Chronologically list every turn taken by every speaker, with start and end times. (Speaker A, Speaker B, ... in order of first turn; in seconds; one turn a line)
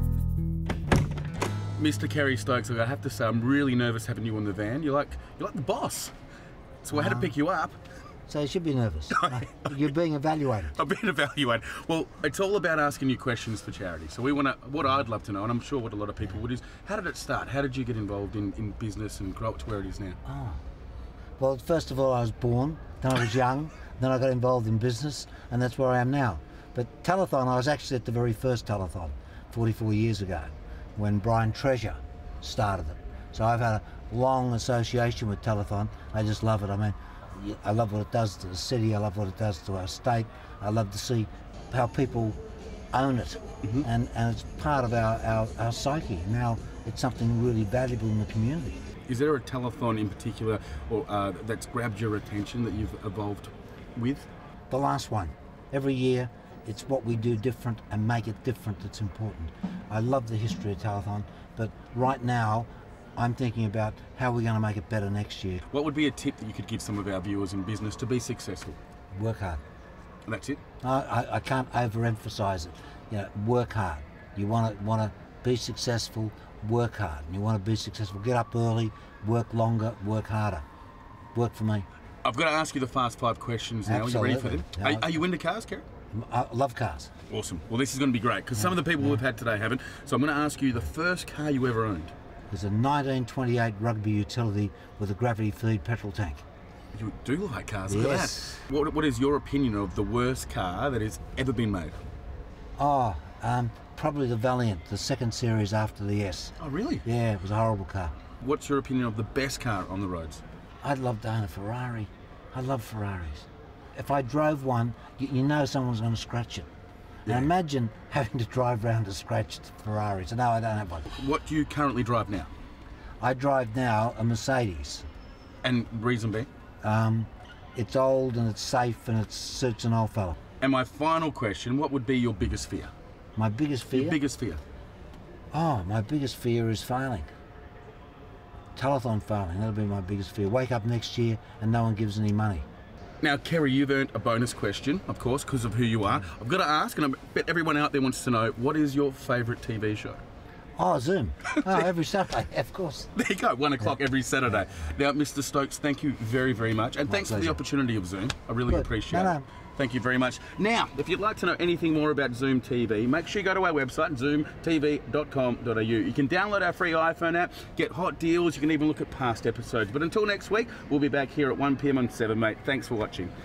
Speaker A: 1.8-6.1
Speaker A: 6.8-7.8
Speaker B: 6.9-7.3
Speaker B: 8.3-10.7
Speaker A: 9.1-9.8
Speaker A: 10.8-20.2
Speaker B: 20.2-20.6
Speaker B: 21.4-42.4
Speaker B: 42.9-48.8
Speaker A: 43.6-43.9
Speaker A: 49.1-54.3
Speaker B: 54.7-65.6
Speaker A: 65.7-68.8
Speaker B: 69.1-69.6
Speaker A: 70.3-70.6
Speaker B: 70.8-80.6
Speaker B: 81.3-81.9
Speaker A: 82.2-85.8
Speaker B: 83.9-85.2
Speaker B: 86.1-87.1
Speaker A: 87.3-92.1
Speaker B: 92.5-96.4
Speaker A: 96.9-102.0
Speaker B: 97.9-98.6
Speaker B: 102.8-106.5
Speaker A: 106.6-107.0
Speaker B: 107.0-108.1
Speaker A: 108.4-110.4
Speaker B: 110.8-116.7
Speaker A: 117.3-117.5
Speaker B: 117.3-121.1
Speaker A: 121.1-122.5
Speaker B: 123.2-125.1
Speaker A: 125.6-126.5
Speaker B: 126.8-130.4
Speaker A: 130.6-132.9
Speaker B: 133.4-134.2
Speaker A: 133.9-134.6
Speaker B: 135.5-137.3
Speaker B: 138.8-142.7
Speaker A: 143.2-150.2
Speaker B: 150.8-153.1
Speaker A: 151.5-151.9
Speaker A: 153.2-173.3
Speaker B: 157.1-157.6
Speaker B: 158.7-159.4